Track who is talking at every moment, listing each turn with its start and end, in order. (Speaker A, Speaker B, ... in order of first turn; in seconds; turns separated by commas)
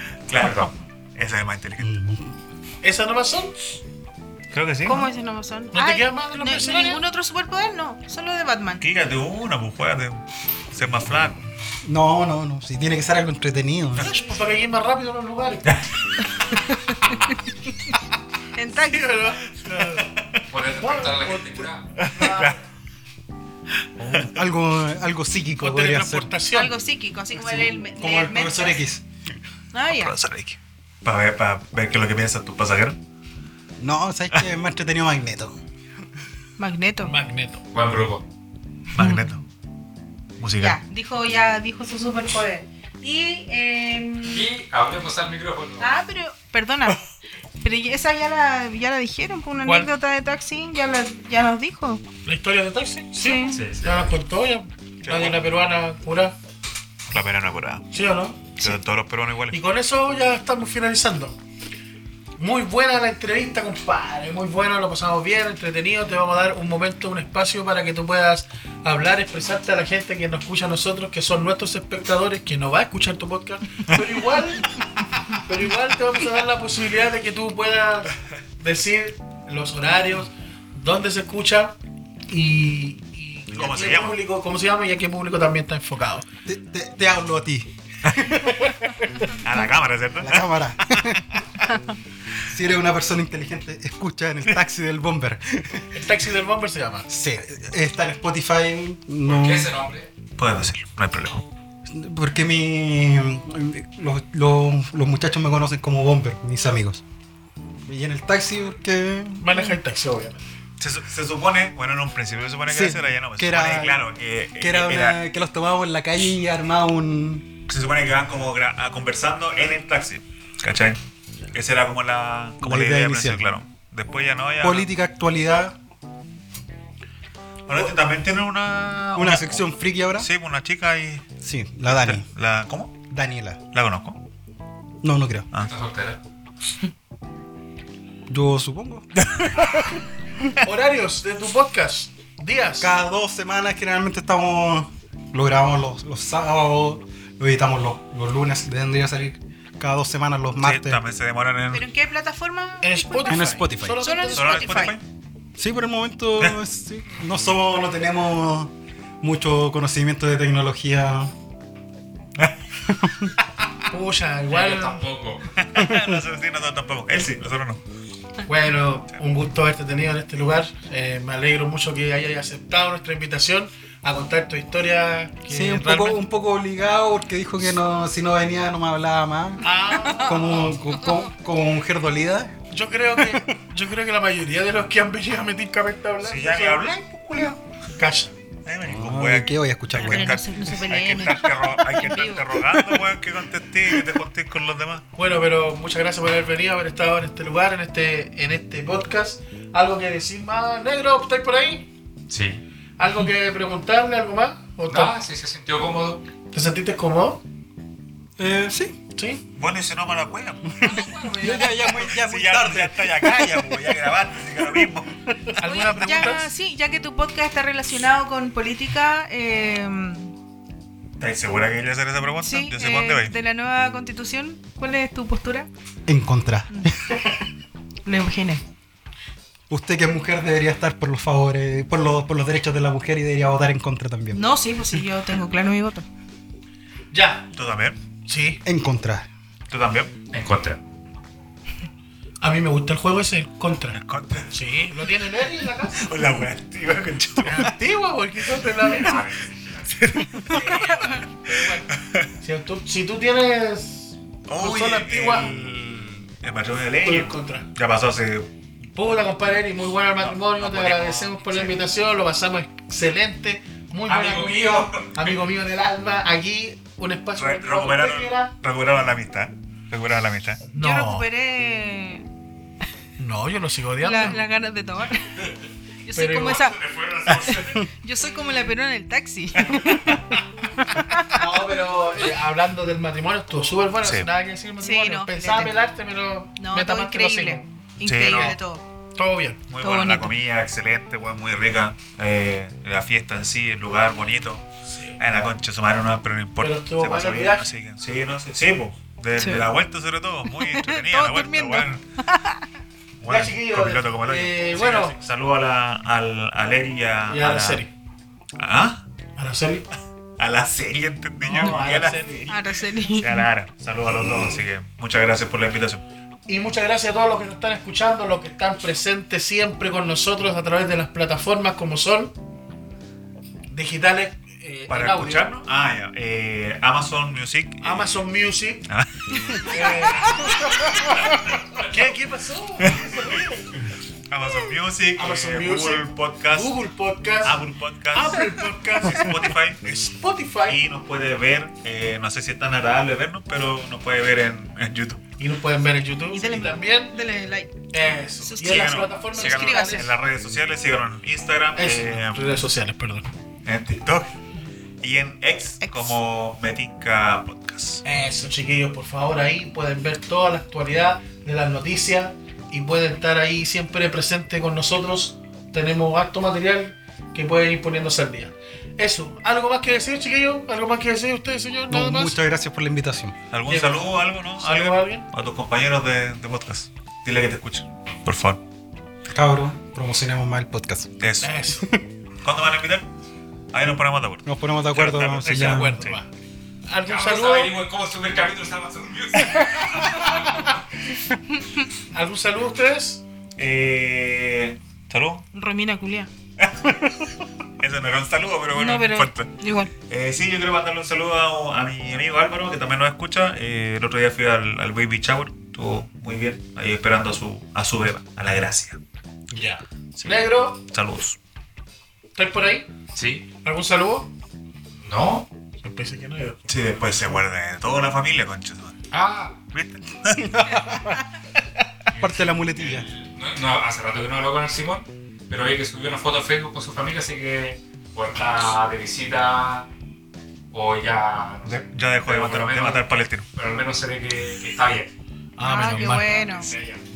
Speaker A: 0.3-1.9, Speaker B: 0.4-0.7, Speaker C: 1.8-2.3, Speaker D: 2.8-3.5, Speaker A: 4.5-5.1, Speaker E: 4.8-8.8, Speaker D: 5.7-7.0, Speaker A: 8.8-11.4, Speaker C: 11.8-14.1, Speaker D: 14.0-15.8, Speaker E: 14.0-14.3, Speaker E: 16.5-17.4, Speaker E: 18.6-19.4, Speaker D: 18.8-20.1, Speaker A: 20.0-20.4, Speaker B: 20.5-21.9, Speaker D: 20.8-22.6, Speaker A: 22.0-22.6, Speaker A: 24.0-24.4, Speaker C: 24.2-26.3, Speaker D: 25.6-26.7, Speaker E: 26.5-28.8, Speaker C: 27.3-29.3, Speaker E: 29.7-30.1, Speaker A: 29.9-33.0, Speaker C: 33.8-35.5, Speaker E: 36.6-37.1, Speaker D: 37.0-37.6, Speaker B: 37.7-38.2, Speaker A: 38.9-39.4, Speaker A: 40.4-40.8, Speaker E: 40.6-44.5, Speaker B: 44.3-46.0, Speaker E: 45.8-47.0, Speaker E: 47.6-52.0, Speaker D: 49.6-49.9, Speaker D: 52.2-56.3, Speaker E: 53.2-53.6, Speaker B: 53.5-54.1, Speaker A: 55.0-55.4, Speaker A: 57.1-57.9, Speaker D: 57.9-58.6, Speaker A: 58.6-59.6, Speaker D: 59.5-61.4, Speaker D: 62.4-74.8, Speaker D: 75.3-81.8, Speaker D: 82.3-86.2, Speaker A: 83.5-84.2, Speaker C: 86.5-88.7, Speaker A: 89.4-91.2, Speaker C: 90.2-91.3, Speaker C: 92.5-96.1, Speaker D: 95.9-97.1, Speaker C: 97.1-99.7, Speaker B: 99.2-100.1, Speaker A: 100.4-101.4, Speaker C: 101.8-107.0, Speaker C: 107.8-109.7, Speaker D: 109.4-110.4, Speaker A: 110.8-115.2, Speaker C: 112.7-114.0, Speaker C: 114.6-117.5, Speaker A: 117.7-121.0, Speaker A: 121.5-124.9, Speaker C: 122.6-123.5, Speaker C: 124.6-125.8, Speaker A: 127.7-131.3, Speaker C: 129.2-130.3, Speaker C: 131.4-132.2, Speaker A: 131.9-132.9, Speaker C: 133.1-133.6, Speaker A: 133.7-134.2, Speaker C: 135.0-135.5, Speaker B: 135.6-136.2, Speaker C: 138.3-139.1, Speaker A: 139.2-140.0, Speaker D: 140.6-142.9, Speaker C: 142.8-151.0, Speaker A: 150.6-151.9, Speaker E: 151.7-153.5, Speaker D: 152.8-154.8, Speaker C: 153.3-154.0, Speaker E: 154.0-155.0, Speaker A: 154.2-155.0, Speaker C: 155.6-161.3, Speaker C: 162.9-163.3, Speaker D: 163.9-165.1, Speaker B: 164.5-165.5, Speaker A: 165.6-167.8, Speaker C: 165.8-166.2, Speaker D: 168.4-176.2, Speaker C: 175.5-182.5, Speaker D: 179.6-180.7, Speaker E: 180.0-180.5, Speaker D: 182.7-186.9, Speaker C: 183.2-183.5, Speaker A: 186.2-187.6, Speaker D: 187.9-188.3, Speaker A: 188.6-195.0, Speaker C: 188.8-190.5, Speaker E: 189.9-192.9, Speaker D: 195.2-201.9, Speaker B: 202.3-202.6, Speaker D: 203.0-205.2, Speaker B: 204.9-206.2, Speaker D: 206.5-207.4, Speaker C: 208.4-209.0, Speaker D: 209.1-209.4, Speaker A: 209.5-210.9, Speaker C: 210.7-213.9, Speaker E: 210.8-212.1, Speaker A: 212.1-215.1, Speaker D: 215.5-216.5, Speaker E: 215.6-220.3, Speaker A: 221.2-223.3, Speaker E: 222.4-225.7, Speaker C: 226.1-227.2, Speaker E: 228.0-228.6, Speaker C: 229.7-234.4, Speaker E: 234.3-236.1, Speaker D: 237.1-237.5, Speaker A: 237.5-238.0, Speaker D: 238.2-238.6, Speaker C: 238.6-239.3, Speaker A: 239.7-240.1, Speaker B: 240.3-240.8, Speaker D: 242.4-246.1, Speaker A: 243.9-245.2, Speaker A: 245.9-247.7, Speaker D: 247.4-249.2, Speaker B: 248.9-250.0, Speaker A: 249.9-252.3, Speaker D: 250.5-255.5, Speaker E: 250.9-251.2, Speaker A: 254.5-258.5, Speaker D: 257.0-257.7, Speaker D: 258.9-268.5, Speaker A: 260.2-261.8, Speaker B: 264.1-265.3, Speaker A: 267.4-270.6, Speaker D: 270.7-271.2, Speaker E: 270.8-272.3, Speaker D: 273.2-274.4, Speaker E: 274.0-275.5, Speaker E: 276.0-276.8, Speaker D: 276.1-276.7, Speaker B: 276.7-277.9, Speaker E: 277.5-281.5, Speaker C: 277.6-277.8, Speaker D: 281.3-287.7, Speaker A: 284.0-284.3, Speaker E: 284.8-285.7, Speaker E: 286.6-288.8, Speaker A: 288.0-288.6, Speaker D: 288.2-288.6, Speaker D: 289.1-289.6, Speaker A: 289.7-294.6, Speaker E: 289.8-290.3, Speaker D: 294.9-295.2, Speaker A: 295.2-302.0, Speaker D: 296.6-297.7, Speaker E: 299.4-299.7, Speaker E: 300.5-302.7, Speaker A: 303.2-307.8, Speaker D: 303.2-305.2, Speaker D: 307.3-307.9, Speaker A: 308.6-309.0, Speaker D: 309.4-309.9, Speaker A: 310.4-312.2, Speaker D: 311.4-312.6, Speaker E: 312.5-313.5, Speaker A: 313.2-316.0, Speaker D: 316.5-322.3, Speaker D: 323.7-325.6, Speaker A: 324.9-328.2, Speaker D: 327.8-328.9, Speaker A: 328.9-330.4, Speaker D: 329.6-333.7, Speaker A: 332.8-333.4, Speaker A: 334.3-336.8, Speaker D: 335.2-337.6, Speaker A: 337.4-339.8, Speaker D: 338.1-340.8, Speaker A: 340.7-345.2, Speaker D: 345.4-347.1, Speaker E: 346.3-347.8, Speaker D: 347.9-350.1, Speaker E: 348.4-350.1, Speaker A: 348.6-352.4, Speaker D: 351.7-353.3, Speaker A: 353.6-354.3, Speaker A: 355.0-358.0, Speaker E: 355.8-356.2, Speaker D: 358.0-372.4, Speaker C: 371.9-373.4, Speaker A: 373.5-378.6, Speaker D: 373.6-375.3, Speaker C: 379.3-381.2, Speaker A: 381.2-381.6, Speaker D: 381.4-381.9, Speaker A: 382.4-383.1, Speaker A: 383.7-386.2, Speaker C: 384.4-386.0, Speaker D: 385.4-386.3, Speaker D: 386.9-387.8, Speaker B: 387.0-390.8, Speaker D: 392.1-393.2, Speaker A: 393.6-395.5, Speaker E: 395.5-396.3, Speaker A: 396.6-397.2, Speaker A: 397.8-399.6, Speaker E: 398.7-399.9, Speaker A: 400.1-409.0, Speaker D: 409.5-410.8, Speaker A: 410.1-411.4, Speaker D: 412.4-412.9, Speaker B: 413.1-413.5, Speaker D: 413.6-414.3, Speaker B: 415.0-415.5, Speaker D: 415.8-416.6, Speaker A: 416.7-419.0, Speaker B: 419.1-419.6, Speaker A: 419.7-420.9, Speaker C: 420.4-421.2, Speaker B: 422.1-429.9, Speaker C: 422.2-423.1, Speaker B: 430.7-433.0, Speaker A: 431.6-433.5, Speaker B: 433.6-435.1, Speaker D: 435.6-436.7, Speaker E: 435.6-436.7, Speaker B: 436.1-437.0